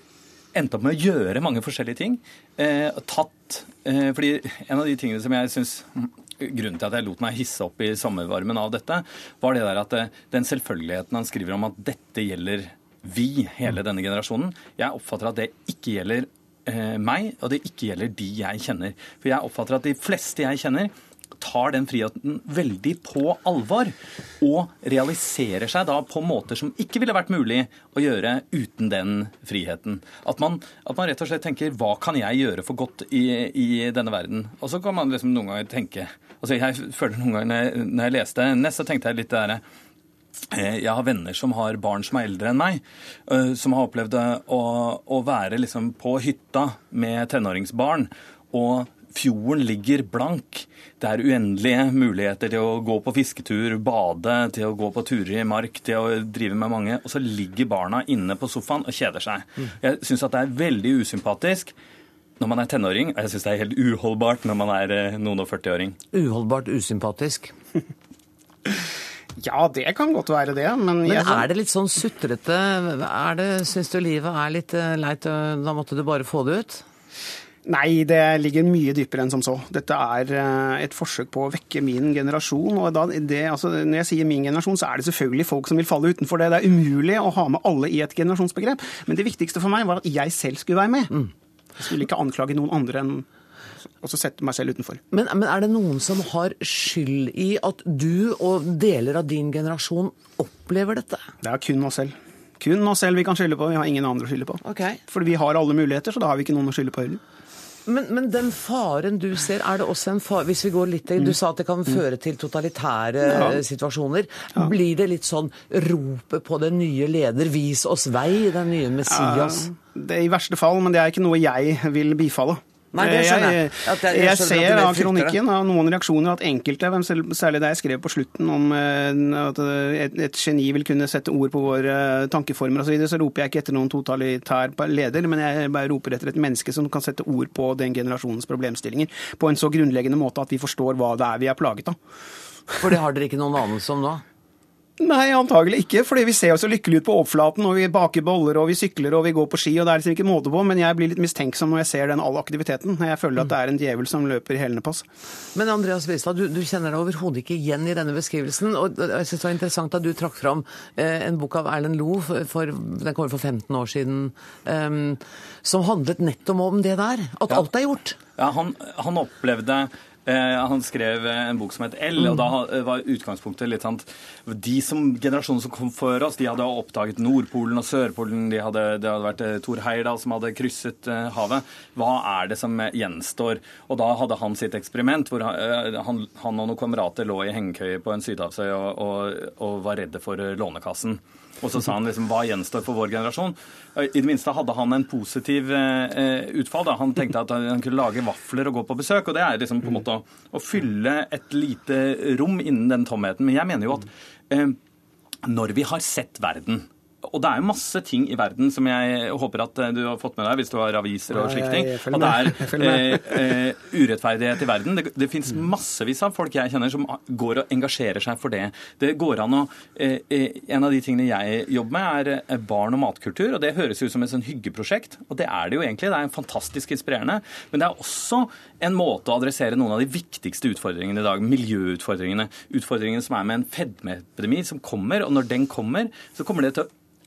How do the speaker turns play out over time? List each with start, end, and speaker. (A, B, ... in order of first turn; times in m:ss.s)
0:00.5-0:39.6 A
0:40.5-1:01.7 A
1:02.4-1:06.0 A
1:06.1-1:07.5 B
1:09.4-1:11.5 C
1:11.0-1:16.8 B
1:17.6-1:31.2 C
1:31.8-1:33.3 C
1:34.0-1:35.0 C
1:35.1-1:41.3 B
1:41.4-1:47.2 C
1:44.6-1:45.0 B
1:47.9-1:59.7 B
1:53.2-1:53.6 C
1:59.1-2:22.0 C
2:02.9-2:05.4 B
2:22.8-2:24.2 B
2:25.0-2:35.0 C
2:35.6-2:48.2 B
2:48.4-3:24.8 A
3:25.4-3:56.9 A
3:31.3-3:33.4 C